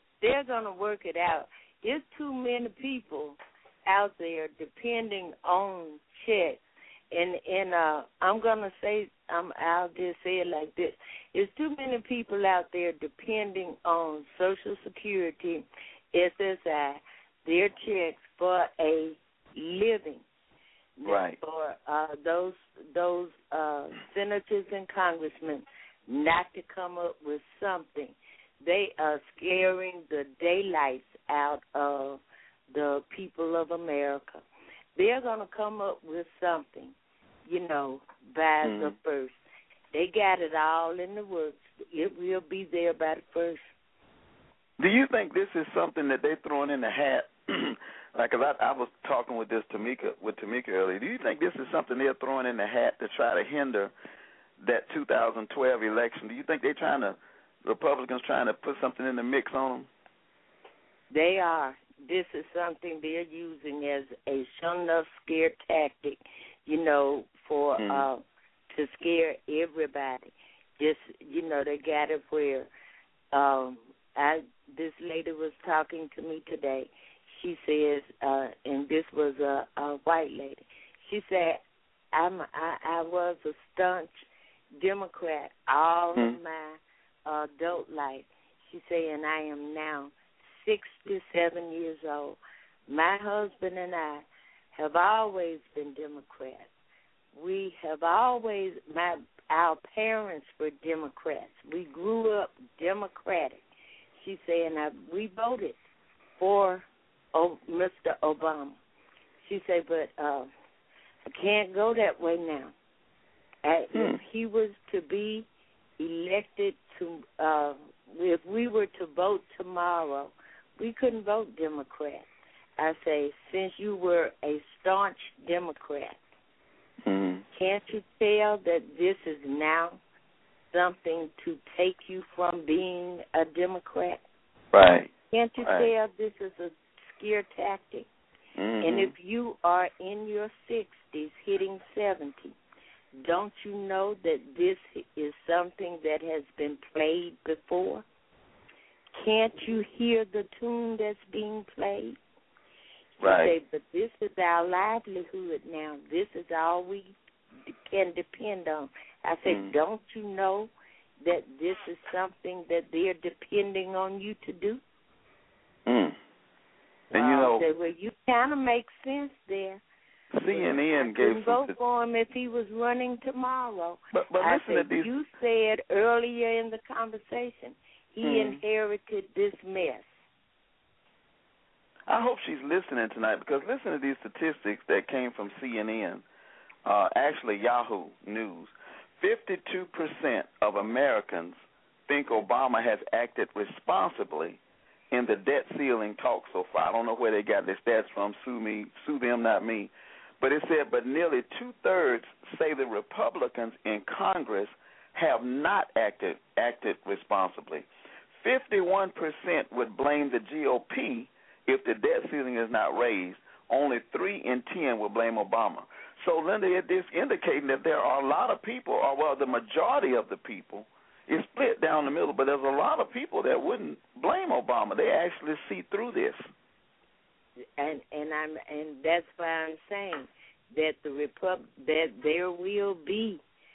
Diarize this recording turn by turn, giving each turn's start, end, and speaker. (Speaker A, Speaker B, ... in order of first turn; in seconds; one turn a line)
Speaker A: 0.2-20.2
Speaker A: 21.0-32.2
Speaker B: 21.0-21.4
Speaker A: 32.7-34.4
Speaker A: 35.0-36.9
Speaker A: 37.4-39.3
Speaker B: 38.6-38.9
Speaker A: 39.9-43.7
Speaker B: 44.8-53.9
Speaker B: 54.6-59.9
Speaker A: 61.1-72.7
Speaker B: 67.8-68.1
Speaker A: 73.3-81.6
Speaker A: 82.1-84.1
Speaker A: 84.8-96.7
Speaker A: 97.3-103.6
Speaker A: 104.2-105.8
Speaker A: 106.4-108.8
Speaker A: 109.4-110.5
Speaker A: 111.3-112.7
Speaker A: 113.6-115.5
Speaker B: 113.9-114.2
Speaker A: 116.0-122.3
Speaker A: 122.8-126.2
Speaker B: 127.0-127.4
Speaker A: 127.5-130.0
Speaker A: 130.7-134.2
Speaker B: 134.7-135.9
Speaker A: 135.3-138.1
Speaker B: 138.6-139.1
Speaker A: 138.8-142.5
Speaker A: 143.2-148.0
Speaker A: 149.2-152.2
Speaker B: 153.2-153.6
Speaker A: 153.2-157.1
Speaker A: 157.8-160.7
Speaker B: 159.4-159.8
Speaker A: 161.2-164.8
Speaker B: 165.8-166.2
Speaker B: 167.1-167.6
Speaker A: 167.1-169.8
Speaker B: 170.3-171.8
Speaker A: 170.4-180.1
Speaker B: 174.1-175.1
Speaker B: 178.2-178.6
Speaker B: 182.1-186.2
Speaker B: 186.8-194.6
Speaker B: 195.1-207.9
Speaker B: 208.4-226.5
Speaker A: 227.8-233.4